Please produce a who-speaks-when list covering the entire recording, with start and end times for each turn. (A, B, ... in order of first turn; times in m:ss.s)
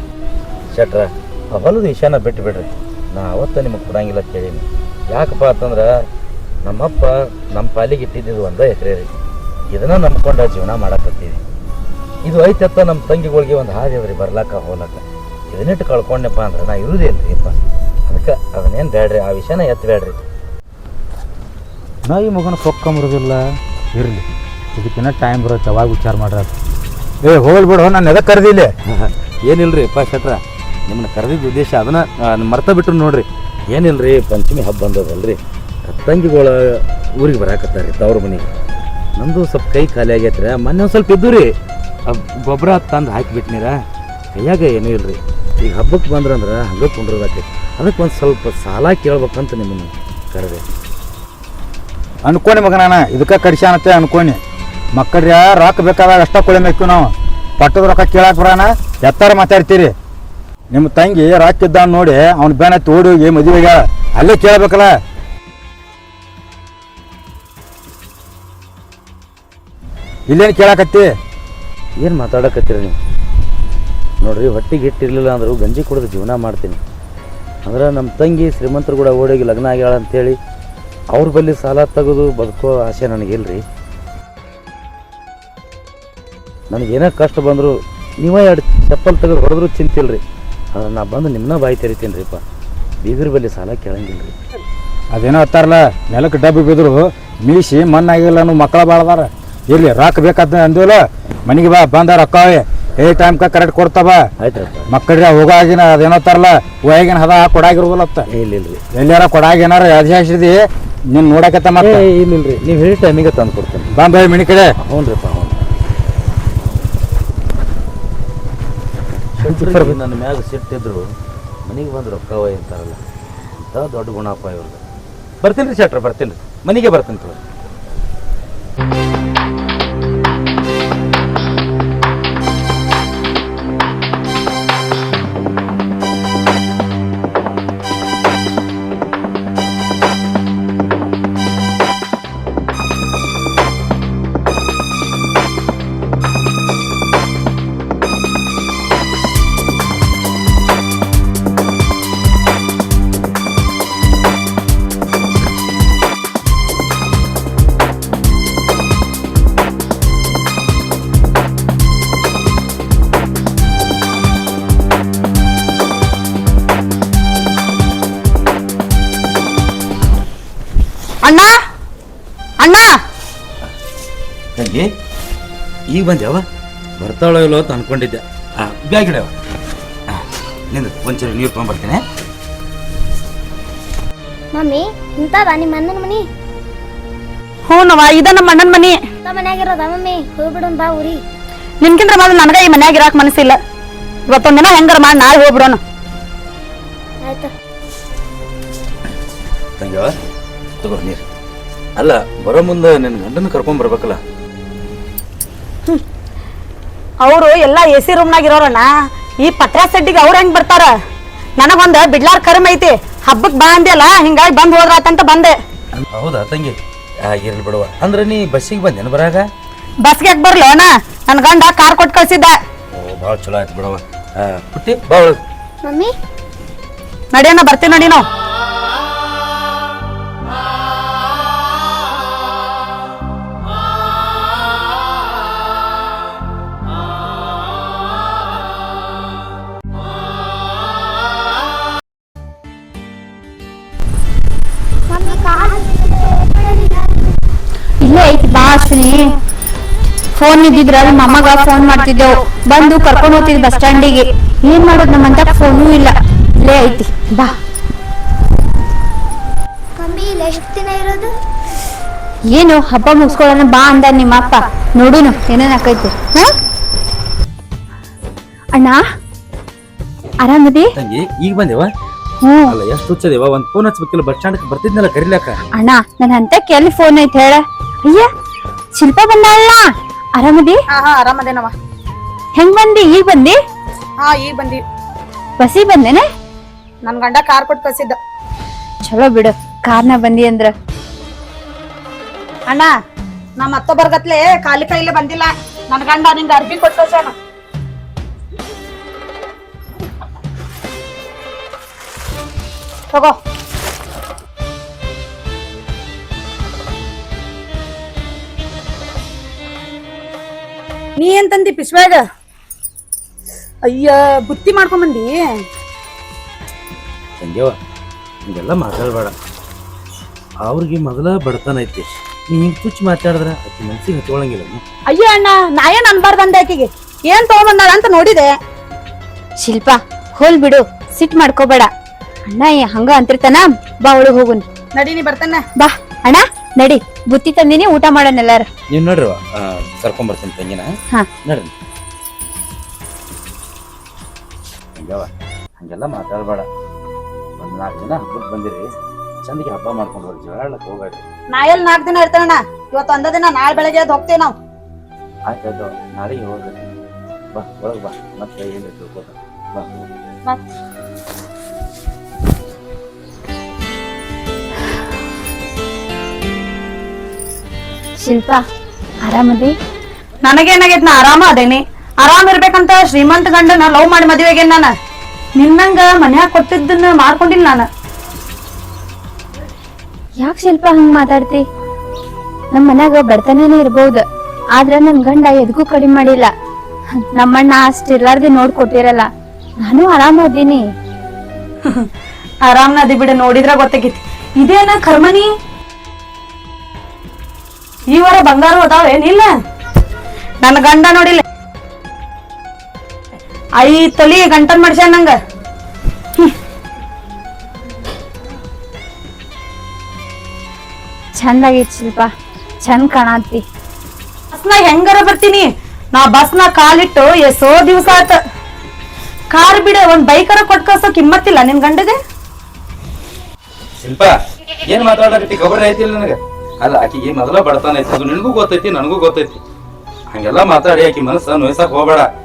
0:00.7-0:05.9 A
0:06.6-0:09.1 A
0:09.7-0:11.4 A
0:12.2-0:17.5 A
0:18.1-0:20.2 A
0:22.0-0:23.4 B
0:23.9-0:24.2 B
0:24.8-0:26.5 B
0:27.2-0:28.7 B
0:28.9-0:38.5 A
0:39.2-0:41.5 A
0:42.1-0:43.8 A
0:44.3-0:50.6 A
0:52.2-0:54.4 B
0:55.0-0:59.9 B
1:00.7-1:04.9 B
1:10.3-1:11.1 B
1:12.0-1:13.0 A
1:14.2-1:16.8 A
1:17.6-1:20.4 A
1:21.1-1:23.6 A
1:26.7-1:30.2 A
1:30.7-1:32.4 A
1:33.0-1:34.3 A
1:35.1-1:44.2 B
1:44.4-1:44.9 A
1:44.9-1:48.3 B
1:48.3-1:48.8 A
1:48.9-1:52.0 B
1:51.8-1:53.9 A
1:53.9-1:54.7 B
1:54.8-1:55.6 A
1:59.4-2:01.0 A
1:59.4-2:00.0 B
2:01.6-2:03.0 A
2:03.6-2:04.8 A
2:05.4-2:07.4 A
2:51.2-2:51.5 C
2:52.6-2:52.9 C
2:54.6-2:54.9 A
2:55.9-2:56.4 A
2:57.0-2:59.3 A
3:00.1-3:02.0 A
3:04.5-3:06.2 D
3:07.7-3:09.0 C
3:09.2-3:11.2 D
3:11.8-3:13.6 C
3:14.3-3:15.8 C
3:17.2-3:17.5 D
3:19.8-3:20.1 A
3:20.8-3:21.2 A
3:22.0-3:24.2 A
3:27.2-3:28.9 C
3:29.4-3:30.9 C
3:31.6-3:35.5 C
3:36.0-3:39.4 A
3:40.0-3:42.5 C
3:42.9-3:45.4 A
3:45.8-3:46.1 D
3:47.3-3:48.2 C
4:05.1-4:07.0 D
4:08.0-4:09.4 E
4:10.3-4:17.5 E
4:20.0-4:21.3 D
4:22.5-4:26.5 E
4:28.7-4:29.0 E
4:30.4-4:30.9 E
4:31.0-4:31.9 A
4:32.4-4:32.8 E
4:32.7-4:35.6 A
4:35.8-4:38.3 E
4:38.9-4:40.8 E
4:40.9-4:41.7 C
4:42.5-4:43.6 E
4:44.2-4:44.8 C
4:45.6-4:46.2 E
4:47.0-4:48.2 C
4:49.0-4:50.7 E
4:53.6-4:57.3 C
5:03.1-5:03.4 C
5:11.2-5:12.2 C
5:13.8-5:15.4 C
5:17.4-5:17.7 A
5:18.4-5:19.3 A
5:20.6-5:24.8 A
5:25.1-5:28.5 C
5:29.6-5:31.9 E
5:32.5-5:34.7 E
5:34.9-5:35.6 C
5:35.8-5:38.7 E
5:38.9-5:40.9 A
5:41.4-5:41.7 A
5:45.0-5:45.3 A
5:45.8-5:46.7 A
5:47.6-5:48.8 A
5:49.4-5:51.2 A
5:51.5-5:54.5 C
5:55.5-5:56.8 A
5:57.5-6:00.1 A
6:08.2-6:08.6 E
6:09.2-6:09.7 E
6:10.4-6:14.9 C
6:15.6-6:17.9 C
6:20.4-6:21.6 E
6:22.7-6:24.2 E
6:24.8-6:26.5 E
6:27.3-6:29.3 E
6:29.8-6:30.9 E
6:32.6-6:35.5 C
6:38.1-6:39.5 C
6:40.6-6:41.4 C
6:43.8-6:45.4 C
6:51.4-6:52.3 E
6:52.8-6:53.6 E
6:54.5-6:58.4 C
6:59.5-7:02.2 C
7:04.0-7:04.3 A
7:04.8-7:09.6 A
7:10.3-7:12.3 A